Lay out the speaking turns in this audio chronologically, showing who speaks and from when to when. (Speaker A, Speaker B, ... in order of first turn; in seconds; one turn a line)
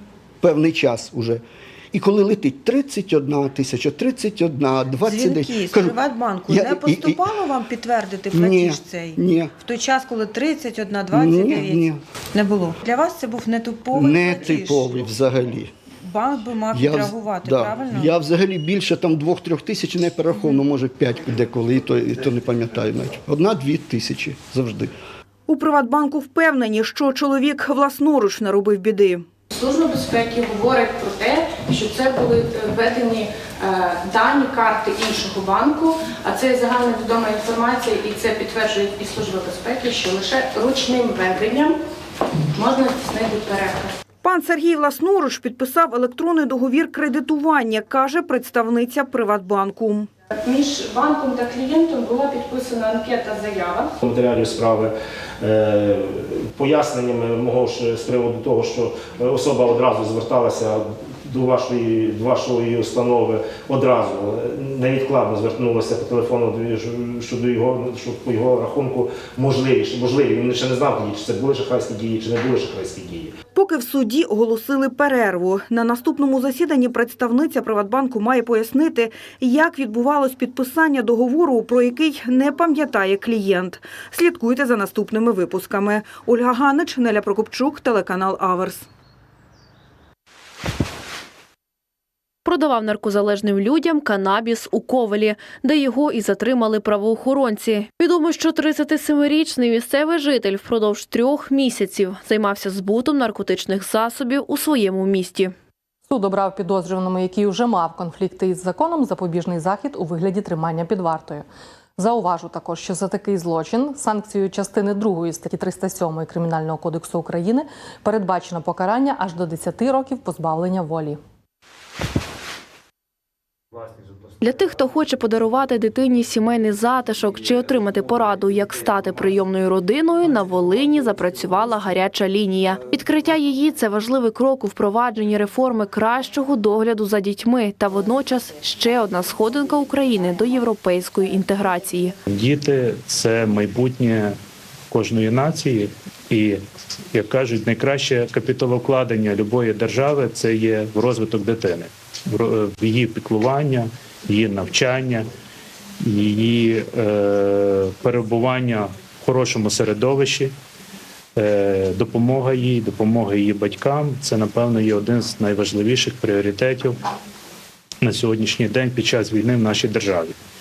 Speaker A: 0.4-6.0
Speaker B: 5.0-15.1
Speaker A: 6.5-7.2
Speaker A: 8.3-9.5
Speaker A: 11.1-12.0
Speaker A: 13.9-15.7
Speaker B: 16.0-18.1
Speaker A: 16.7-24.9
Speaker C: 25.5-29.3
Speaker D: 29.5-41.8
Speaker D: 42.5-44.0
Speaker C: 44.2-50.1
Speaker D: 50.4-53.9
Speaker E: 54.0-73.3
Speaker C: 73.5-88.9
Speaker F: 92.5-105.5
Speaker G: 106.1-111.5
Speaker G: 112.0-121.2
Speaker F: 124.4-142.1
Speaker H: 142.3-144.4
Speaker H: 144.9-146.6
Speaker H: 147.1-155.3
Speaker H: 156.0-160.5
Speaker H: 161.4-167.0
Speaker H: 168.0-170.3